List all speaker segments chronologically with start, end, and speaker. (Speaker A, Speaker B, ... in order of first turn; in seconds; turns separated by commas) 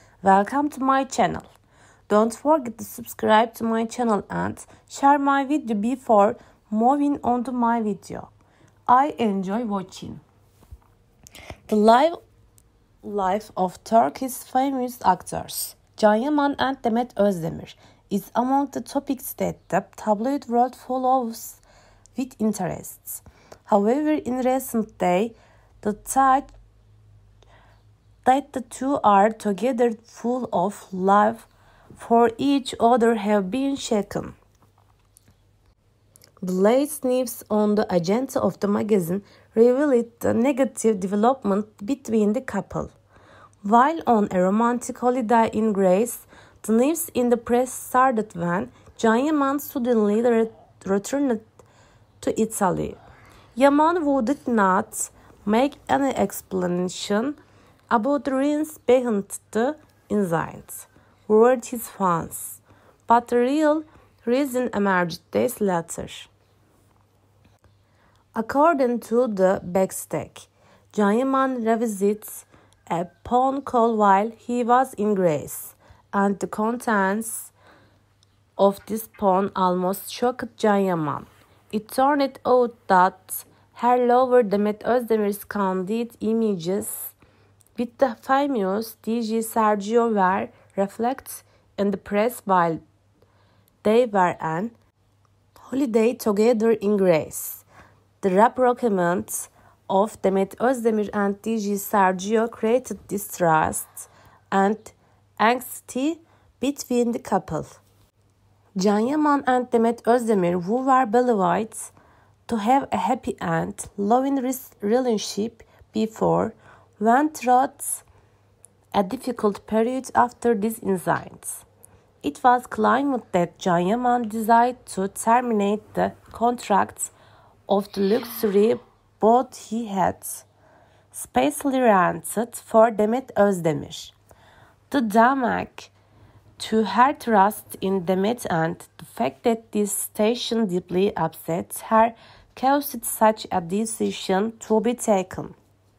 Speaker A: 0.2-1.5, Speaker A: 2.1-8.3, Speaker A: 8.9-10.2, Speaker A: 11.7-12.2, Speaker A: 13.0-21.6, Speaker A: 22.1-26.5, Speaker A: 28.2-34.4, Speaker A: 36.4-42.9, Speaker A: 43.6-51.4, Speaker A: 52.2-53.0, Speaker A: 53.5-57.4, Speaker A: 57.9-66.3, Speaker A: 68.3-77.5, Speaker A: 78.6-87.1, Speaker A: 87.8-92.8, Speaker A: 93.8-94.7, Speaker A: 95.5-97.6, Speaker A: 98.2-107.8, Speaker A: 108.8-111.9, Speaker A: 112.5-118.0, Speaker A: 118.9-121.6, Speaker A: 122.2-127.1, Speaker A: 127.7-130.4, Speaker A: 131.1-134.1, Speaker A: 134.9-135.9, Speaker A: 136.6-145.6